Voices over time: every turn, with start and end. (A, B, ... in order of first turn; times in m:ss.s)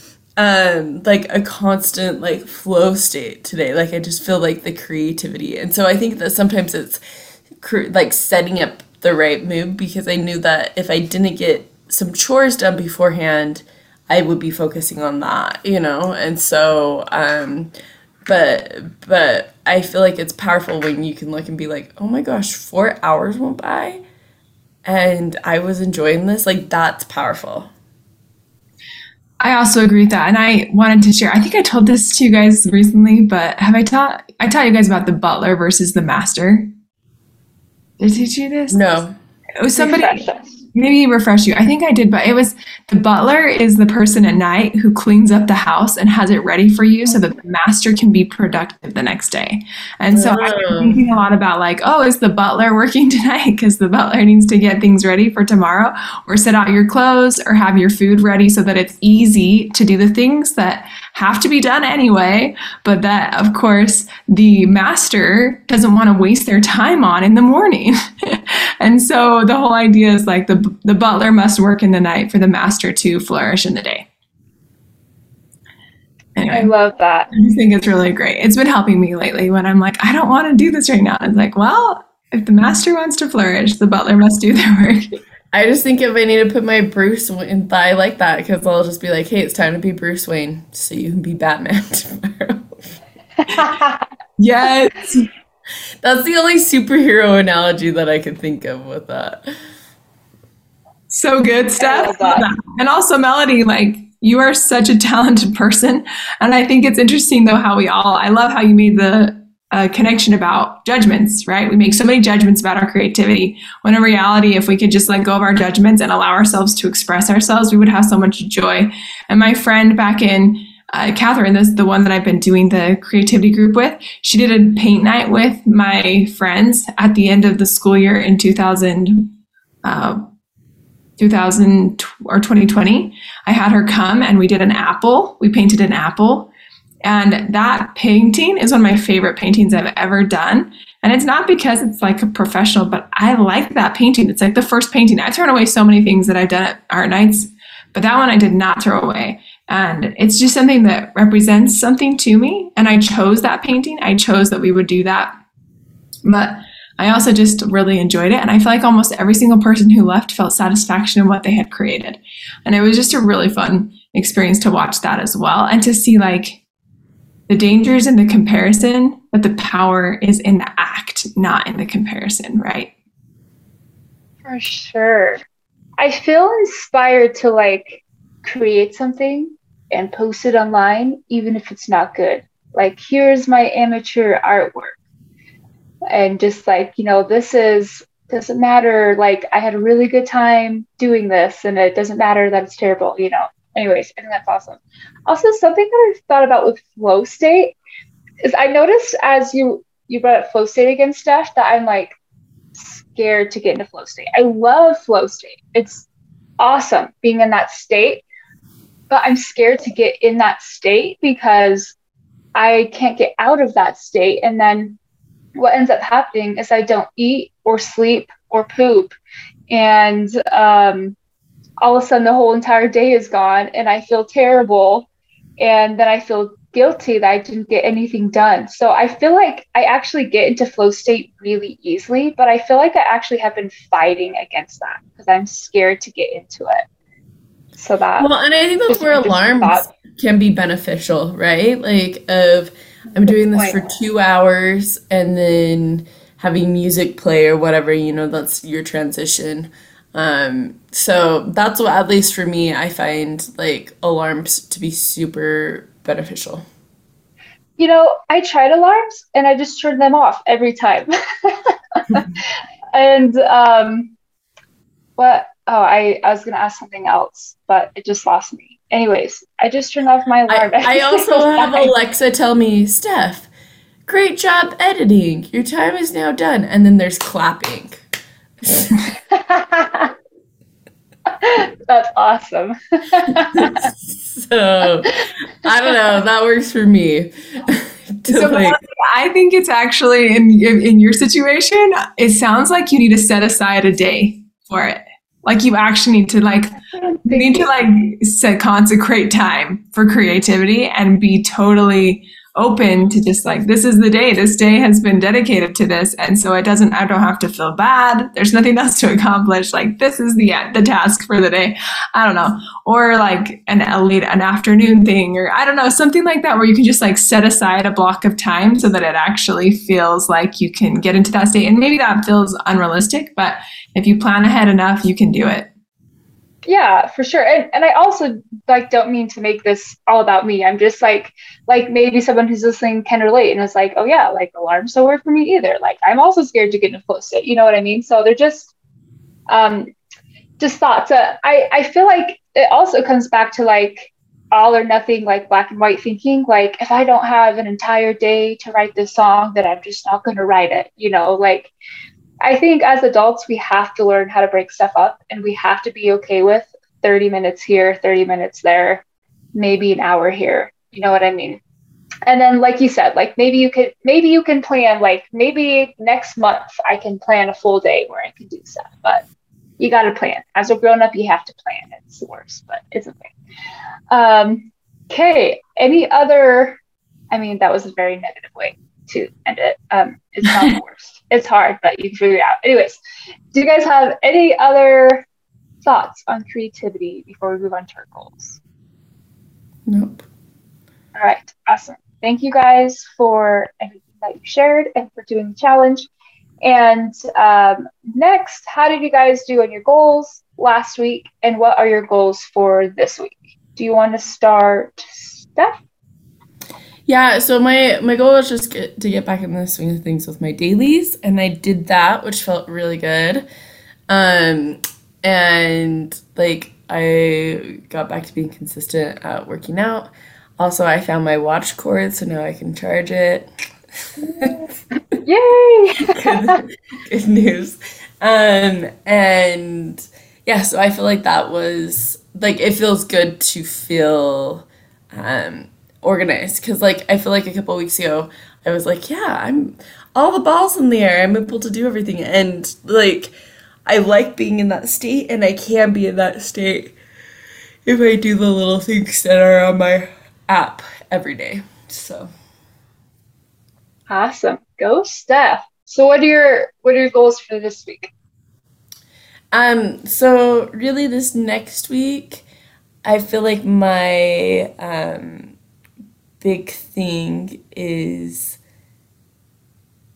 0:00.4-0:07.0 A
0:07.6-0:17.7 A
0:18.2-0:24.0 A
0:24.8-0:27.7 A
0:29.4-0:36.7 B
0:38.0-0:39.0 B
0:38.7-0:39.1 A
0:39.6-1:14.0 B
0:39.8-0:40.5 C
0:50.1-0:51.0 A
1:16.4-1:16.7 B
1:16.5-1:17.3 C
1:17.3-1:25.0 B
1:25.5-1:32.7 A
1:33.5-1:34.0 C
1:34.4-1:35.3 B
1:36.0-1:39.5 A
1:41.1-2:09.3 B
1:41.8-1:42.5 C
2:09.8-2:10.3 B
2:11.2-2:16.5 B
2:17.0-2:35.4 B
2:36.2-2:46.6 B
2:47.5-2:52.9 B
2:54.4-2:55.4 C
2:56.0-3:05.0 C
3:06.1-3:17.7 C
3:18.4-3:22.2 C
3:22.7-3:26.0 C
3:26.6-3:28.2 C
3:29.1-3:32.0 C
3:32.6-3:35.0 C
3:35.6-3:39.2 C
3:39.7-3:41.2 C
3:41.8-3:45.1 C
3:45.6-3:56.8 C
3:57.8-3:58.3 C
3:58.2-4:16.6 A
3:58.9-3:59.8 C
4:03.5-4:03.8 C
4:17.8-4:22.3 C
4:22.9-4:24.1 C
4:25.2-4:31.9 C
4:30.5-4:33.5 A
4:34.1-4:38.0 A
4:38.6-4:38.9 A
4:39.3-4:40.1 C
4:41.4-4:43.9 C
4:43.5-4:48.8 A
4:48.3-5:25.7 B
4:56.9-4:57.7 C
5:26.7-5:38.7 C
5:39.5-5:39.9 C
5:40.6-5:51.7 C
5:52.4-5:59.0 C
5:59.5-6:01.6 C
6:02.3-6:09.2 C
6:09.8-6:13.3 C
6:14.1-6:16.8 C
6:17.3-6:23.0 C
6:23.5-6:25.2 C
6:25.8-6:28.6 C
6:29.9-6:30.2 A
6:31.2-6:36.1 C
6:36.6-6:45.8 C
6:47.1-6:53.4 A
6:54.1-7:03.5 A
7:04.2-7:04.7 C
7:04.3-7:04.6 A
7:05.2-7:06.6 C
7:06.1-7:23.3 A
7:23.8-7:26.9 A
7:27.8-7:32.3 A
7:34.1-7:38.1 C
7:39.5-7:42.4 A
7:43.0-7:45.5 A
7:46.4-7:48.6 A